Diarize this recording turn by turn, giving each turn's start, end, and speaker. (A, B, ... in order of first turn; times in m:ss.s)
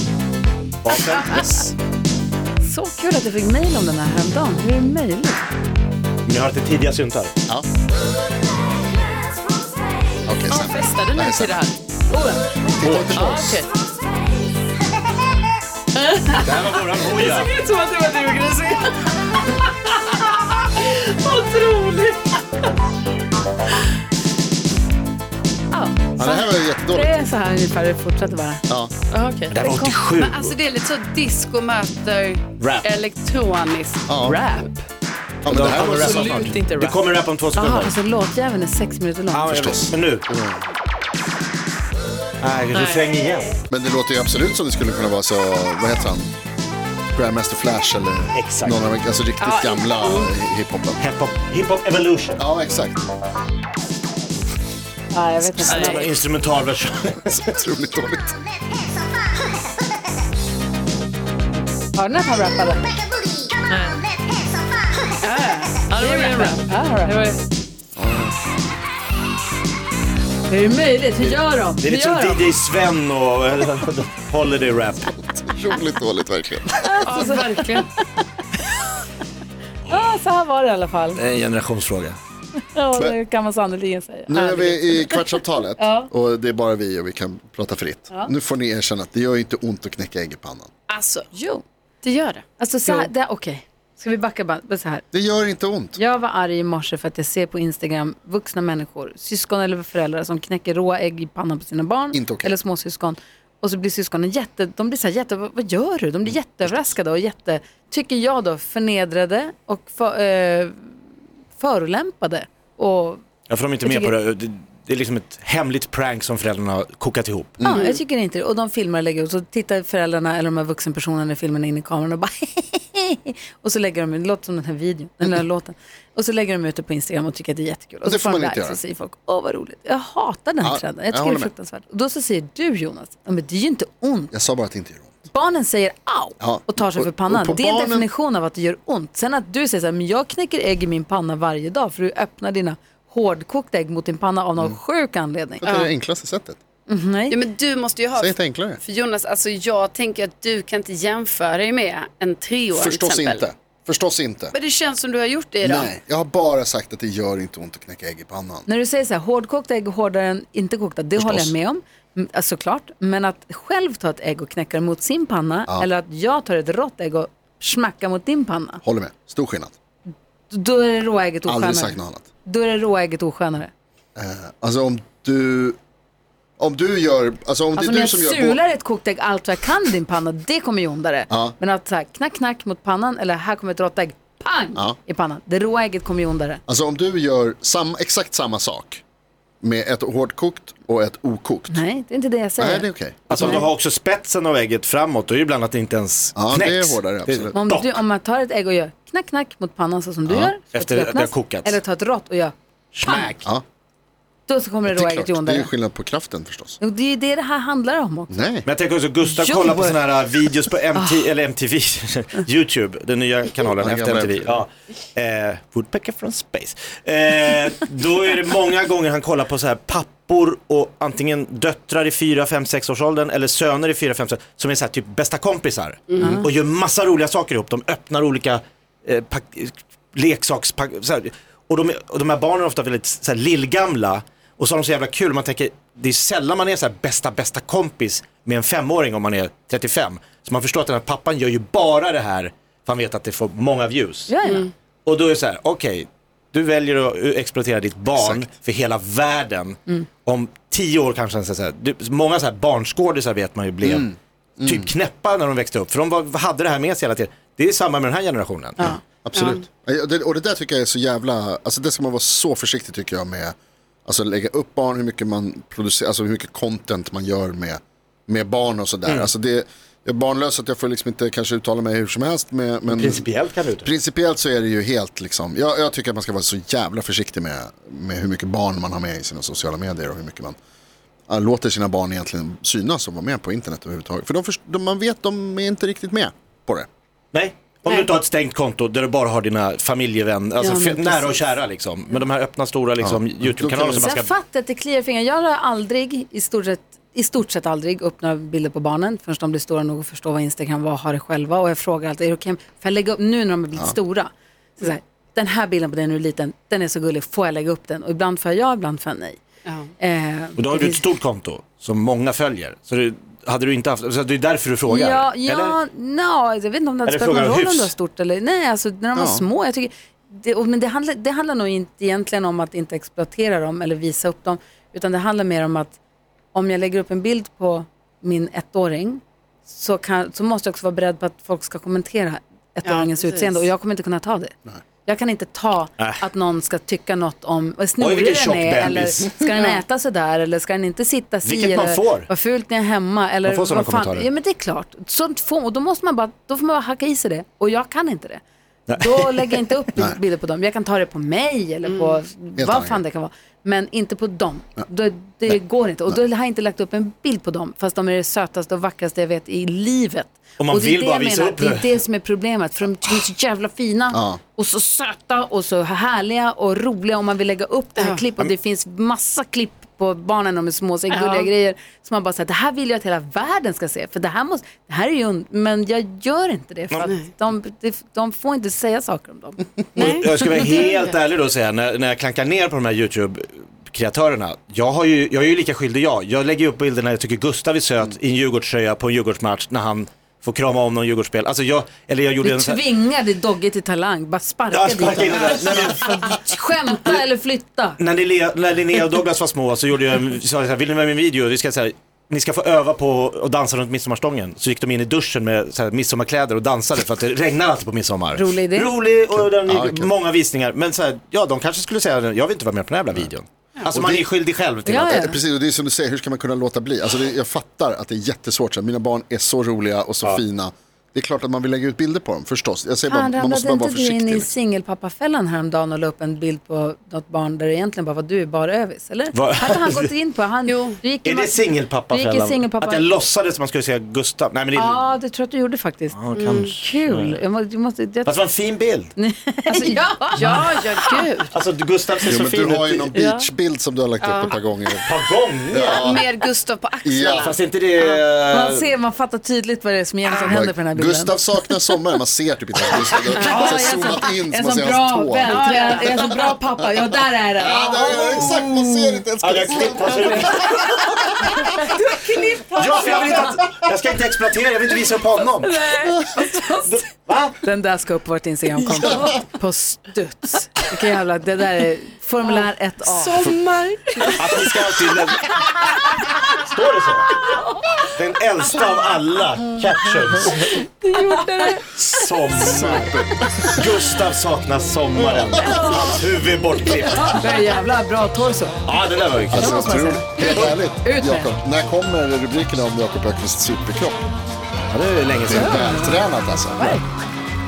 0:00.8-0:01.7 A
0:02.6-0:05.4 B
0:06.2-0:07.3 A
0:10.3-0:11.6 C
0:10.5-0:11.8 D
0:12.1-0:12.4 B
0:12.7-0:13.6 C
0:12.8-0:13.2 A
0:13.1-0:13.7 D
0:15.9-0:22.4 D
0:16.3-0:17.5 A
0:25.7-0:28.6 B
0:26.2-0:27.1 C
0:29.1-0:29.6 D
0:29.5-0:30.6 A
0:29.6-0:29.9 B
0:30.1-0:34.2 E
0:32.6-0:32.9 A
0:34.1-0:34.4 C
0:34.2-0:34.8 D
0:35.4-0:36.5 C
0:35.4-0:37.9 A
0:35.6-0:37.0 D
0:37.6-0:39.5 B
0:39.3-0:40.2 A
0:39.5-0:40.7 C
0:42.4-0:43.6 A
0:42.7-0:43.1 D
0:43.7-0:46.3 C
0:47.1-0:51.0 C
0:48.3-0:48.9 A
0:49.4-0:50.3 E
0:51.0-0:52.4 A
0:52.4-0:53.0 C
0:55.1-0:56.2 B
0:55.6-0:57.4 A
0:55.7-0:56.0 D
0:57.3-0:58.4 C
1:01.9-1:03.0 B
1:03.7-1:04.0 D
1:05.2-1:06.1 E
1:05.9-1:07.4 D
1:06.0-1:07.2 B
1:08.0-1:08.3 C
1:10.5-1:12.4 B
1:11.8-1:15.2 A
1:15.4-1:17.3 C
1:16.8-1:18.0 B
1:17.0-1:17.9 D
1:19.9-1:21.2 B
1:21.1-1:22.2 A
1:22.7-1:26.1 B
1:24.3-1:30.7 C
1:30.9-1:31.3 E
1:31.3-1:31.6 B
1:32.0-1:33.0 E
1:32.6-1:35.0 B
1:35.1-1:36.0 C
1:36.0-1:50.9 B
1:42.1-1:42.6 C
1:51.6-1:53.2 B
1:53.5-1:57.7 A
1:53.8-1:54.1 B
1:57.6-1:57.9 C
1:57.6-2:14.3 B
2:08.0-2:08.8 C
2:10.6-2:11.5 C
2:14.3-2:15.1 C
2:15.3-2:25.6 B
2:16.4-2:18.1 C
2:25.6-2:26.6 C
2:25.6-2:25.9 E
2:26.9-2:27.4 B
2:27.3-2:33.4 E
2:28.2-2:28.8 C
2:32.7-2:34.5 C
2:34.5-2:35.9 E
2:35.6-2:38.6 C
2:38.7-2:48.8 B
2:41.2-2:41.5 C
2:48.8-2:49.7 C
2:50.5-2:53.7 B
2:51.4-2:52.2 C
2:54.2-2:55.8 C
2:56.6-2:58.6 C
2:57.7-3:06.6 B
3:01.3-3:01.5 C
3:06.7-3:09.0 C
3:09.6-3:11.8 C
3:11.7-3:13.7 B
3:12.6-3:13.6 C
3:13.3-3:18.0 A
3:16.4-3:17.5 C
3:17.5-3:23.3 B
3:20.2-3:20.5 C
3:20.7-3:21.8 A
3:22.9-3:23.5 A
3:24.5-3:25.7 B
3:24.9-3:26.8 C
3:26.8-3:28.4 B
3:28.3-3:28.7 C
3:28.6-4:04.3 A
3:29.3-3:30.0 B
3:30.9-3:31.3 B
3:33.8-3:34.6 C
3:46.1-3:46.4 E
4:04.3-4:04.7 B
4:05.0-4:19.5 A
4:08.1-4:08.5 C
4:13.8-4:14.9 C
4:19.2-4:23.5 C
4:19.3-4:19.6 E
4:24.0-4:33.3 C
4:32.9-4:33.9 A
4:33.8-4:40.6 C
4:41.3-4:46.9 C
4:47.3-4:54.3 A
4:50.6-4:51.2 E
4:50.6-4:51.1 B
4:53.0-4:54.1 C
4:54.0-5:09.4 B
5:09.6-5:09.9 E
5:10.0-5:11.0 B
5:10.6-5:15.8 A
5:14.9-5:26.0 B
5:17.0-5:17.9 A
5:19.1-5:19.4 C
5:26.5-5:34.5 B
5:32.8-5:33.6 E
5:35.0-6:19.6 B
5:38.0-5:39.4 A
5:39.5-5:39.8 E
5:41.4-5:42.3 A
5:43.4-5:44.3 A
5:48.9-5:49.6 A
5:51.8-5:52.2 E
5:52.6-5:53.0 C
6:00.6-6:01.9 A
6:04.1-6:04.4 C
6:11.1-6:11.5 E
6:19.9-6:32.8 A
6:20.0-6:21.0 E
6:32.4-6:38.0 B
6:34.7-6:37.2 A
6:38.0-6:55.3 A
6:48.3-6:48.9 B
6:49.3-6:50.1 C
6:53.9-6:54.3 C
6:54.8-6:55.4 B
6:55.1-7:04.5 C
7:03.1-7:13.1 B
7:09.3-7:10.1 A
7:10.7-7:11.0 E
7:11.2-7:15.0 A
7:14.7-7:18.4 B
7:16.1-7:17.4 A
7:16.4-7:16.7 E
7:18.2-7:19.1 A
7:19.2-7:21.1 B
7:19.7-7:21.5 E
7:21.5-7:23.2 A
7:22.2-7:25.1 C
7:23.2-7:23.4 E
7:24.2-7:24.5 E
7:25.0-7:26.2 A
7:25.7-7:26.2 C
7:25.7-7:27.6 E
7:27.0-7:27.6 C
7:27.3-7:28.9 A
7:28.5-7:31.4 B
7:30.4-7:36.2 C
7:33.3-7:43.6 B
7:35.5-7:36.4 E
7:37.6-7:40.5 C
7:39.4-7:41.2 A
7:41.4-7:41.9 C
7:42.7-7:45.8 A
7:46.2-7:46.9 B
7:46.7-7:47.6 A
7:47.6-7:53.5 B
7:52.4-7:54.8 E
7:54.4-7:55.5 A
7:56.4-7:57.4 A
7:58.2-8:00.8 A
8:01.0-8:01.8 E
8:01.9-8:07.5 A
8:02.6-8:03.9 C
8:05.7-8:06.1 B
8:07.0-8:08.8 B
8:08.8-8:09.9 A
8:09.5-8:14.2 C
8:09.5-8:11.5 B
8:10.4-8:10.8 A
8:14.9-8:15.9 A
8:15.4-8:17.0 C
8:15.5-8:16.2 B